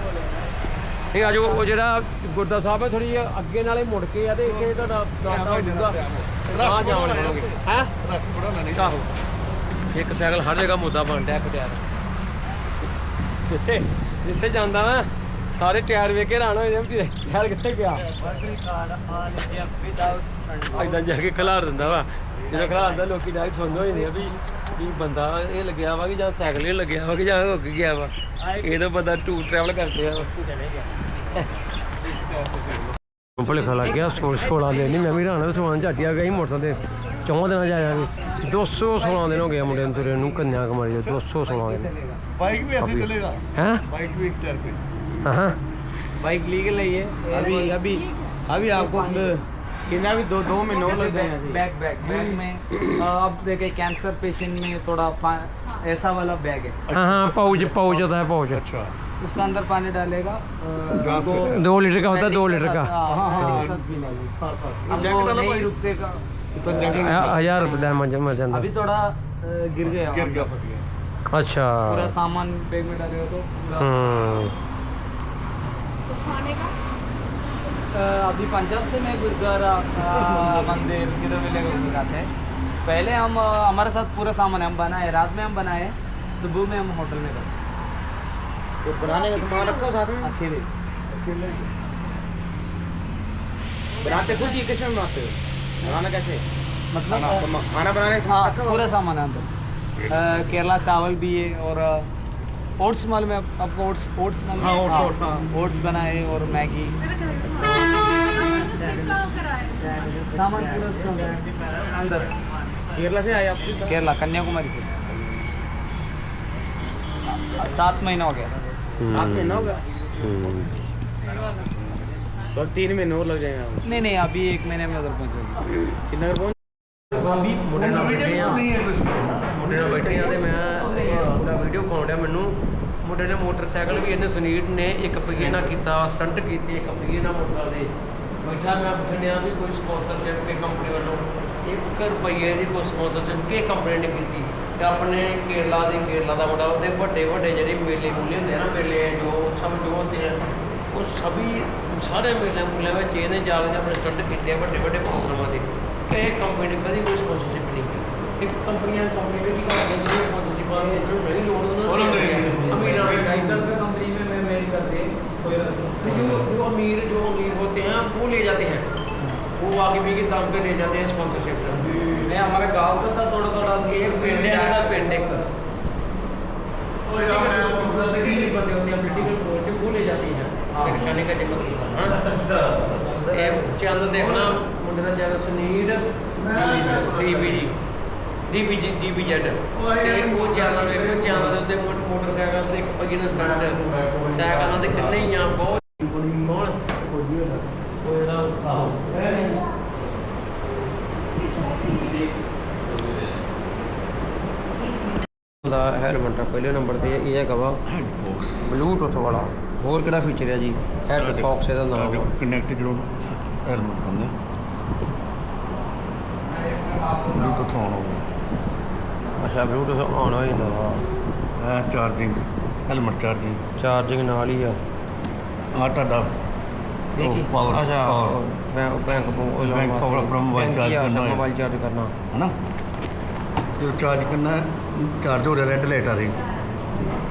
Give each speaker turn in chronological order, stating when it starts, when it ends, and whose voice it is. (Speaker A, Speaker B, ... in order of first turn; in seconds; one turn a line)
Speaker A: 1.1-7.9
Speaker B: 5.4-9.0
Speaker A: 8.7-9.1
Speaker A: 9.9-11.8
Speaker A: 13.4-18.1
Speaker C: 18.1-21.0
Speaker A: 20.7-30.3
Speaker C: 22.4-23.0
Speaker C: 28.4-28.8
Speaker C: 30.5-30.8
Speaker B: 32.2-32.9
Speaker A: 33.4-41.9
Speaker C: 33.7-35.2
Speaker C: 39.0-40.5
Speaker C: 41.5-42.2
Speaker B: 42.3-44.8
Speaker A: 42.8-43.8
Speaker A: 45.2-45.6
Speaker C: 46.2-47.9
Speaker D: 47.3-51.6
Speaker C: 48.6-49.3
Speaker C: 50.7-56.8
Speaker B: 56.9-59.0
Speaker A: 56.9-58.6
Speaker C: 59.2-67.3
Speaker B: 60.9-61.7
Speaker A: 61.4-63.6
Speaker B: 63.0-63.8
Speaker B: 64.4-65.7
Speaker B: 66.5-67.6
Speaker A: 66.9-68.7
Speaker C: 68.5-70.5
Speaker B: 69.8-70.8
Speaker A: 71.3-72.1
Speaker C: 71.9-74.0
Speaker A: 73.8-74.5
Speaker C: 77.9-82.3
Speaker C: 82.8-87.5
Speaker D: 88.8-90.3
Speaker C: 90.2-90.7
Speaker C: 91.2-91.6
Speaker D: 94.0-96.4
Speaker C: 96.9-97.4
Speaker D: 97.1-98.8
Speaker C: 98.2-99.5
Speaker C: 100.1-102.1
Speaker C: 102.8-107.0
Speaker B: 104.6-105.4
Speaker C: 108.5-112.3
Speaker D: 112.9-113.9
Speaker C: 113.8-114.9
Speaker C: 117.3-118.5
Speaker A: 119.0-120.8
Speaker D: 119.1-120.1
Speaker D: 122.5-124.1
Speaker C: 123.8-125.7
Speaker D: 125.9-126.5
Speaker A: 127.1-128.7
Speaker B: 127.7-131.3
Speaker A: 129.5-137.9
Speaker A: 138.4-150.4
Speaker A: 150.9-163.6
Speaker B: 161.8-163.4
Speaker C: 162.6-166.5
Speaker A: 166.0-168.9
Speaker A: 169.4-172.2
Speaker C: 172.1-175.4
Speaker A: 173.8-175.4
Speaker A: 177.1-182.2
Speaker B: 177.1-178.5
Speaker C: 180.7-181.0
Speaker B: 182.1-184.6
Speaker A: 183.3-187.8
Speaker B: 186.3-187.7
Speaker A: 188.5-196.8
Speaker B: 189.7-191.6
Speaker B: 193.3-195.3
Speaker B: 196.1-197.7
Speaker A: 198.0-198.6
Speaker B: 198.6-200.2
Speaker A: 201.7-202.2
Speaker A: 202.9-203.3
Speaker A: 205.6-207.8
Speaker B: 207.8-208.8
Speaker A: 208.6-212.3
Speaker B: 211.1-214.3
Speaker C: 216.6-217.5
Speaker B: 217.3-218.2
Speaker A: 219.4-221.1
Speaker B: 221.6-223.6
Speaker A: 223.8-224.8
Speaker B: 225.7-226.3
Speaker B: 227.2-228.4
Speaker A: 227.2-232.1
Speaker B: 229.6-231.4
Speaker B: 233.8-236.4